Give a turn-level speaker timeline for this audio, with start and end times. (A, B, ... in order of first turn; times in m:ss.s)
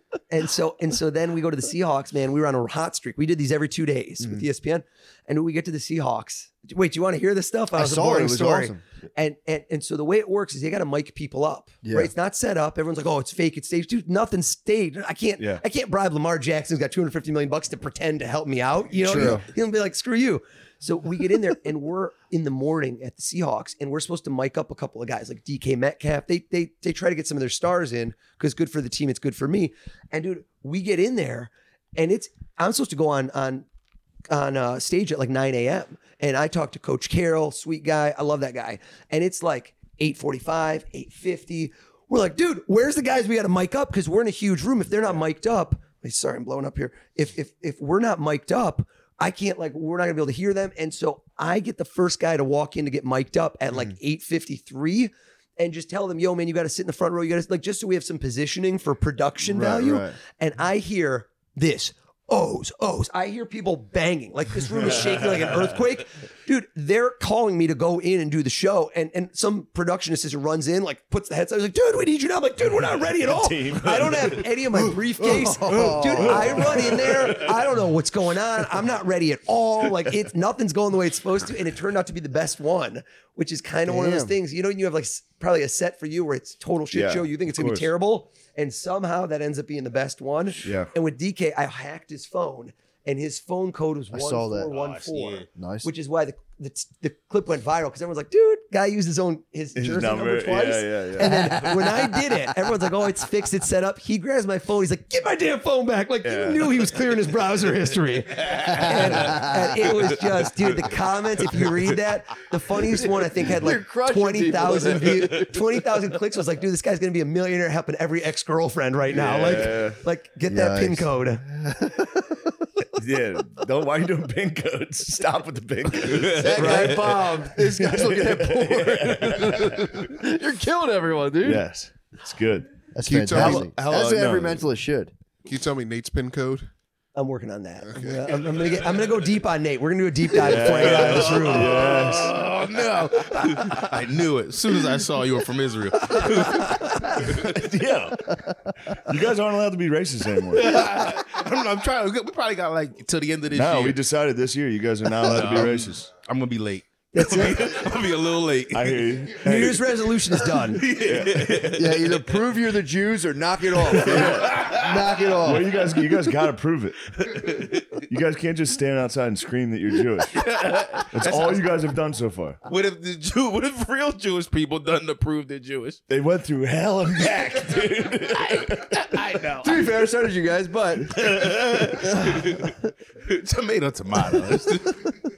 0:00.3-0:33.7 A
0:07.7-0:08.8 B
0:11.8-0:12.1 B
0:15.4-0:15.6 C
0:19.0-0:19.5 B
0:34.3-2:01.4 A
0:59.5-1:00.2 B
1:04.8-1:05.8 C
1:13.2-1:14.5 C
1:14.7-1:16.9 B
1:16.2-1:17.9 C
1:23.9-1:24.4 B
1:26.9-1:27.9 C
1:30.6-1:30.9 C
1:34.1-1:34.7 B
1:34.7-1:35.5 D
1:35.6-1:35.9 B
1:39.8-1:41.6 C
1:41.2-1:42.4 B
1:46.2-1:46.8 C
1:48.6-1:49.7 B
1:53.3-1:55.7 B
1:59.1-2:00.0 C
2:00.5-2:02.5 B
2:02.9-2:10.1 C
2:06.1-2:06.8 D
2:06.1-2:11.6 B
2:06.6-2:07.3 A
2:11.4-2:14.6 C
2:13.0-2:15.1 B
2:13.0-2:13.7 E
2:15.4-2:16.7 E
2:17.2-2:21.9 A
2:17.9-2:18.3 E
2:20.3-2:22.4 C
2:20.7-2:27.2 D
2:27.1-2:30.8 C
2:30.5-2:34.0 D
2:33.5-2:36.1 C
2:35.2-2:39.2 D
2:35.3-2:35.8 B
2:37.1-2:37.7 A
2:38.7-2:40.1 C
2:39.4-2:40.9 A
2:40.6-2:42.1 D
2:40.9-2:41.8 C
2:41.7-2:45.8 B
2:44.0-2:44.8 C
2:44.0-2:44.9 D
2:45.3-2:50.5 C
2:47.3-2:47.8 D
2:50.3-2:51.7 D
2:51.1-2:52.6 C
2:52.6-2:56.0 D
2:56.1-2:59.1 C
2:58.5-2:59.9 D
2:59.6-3:02.6 B
3:01.2-3:05.2 D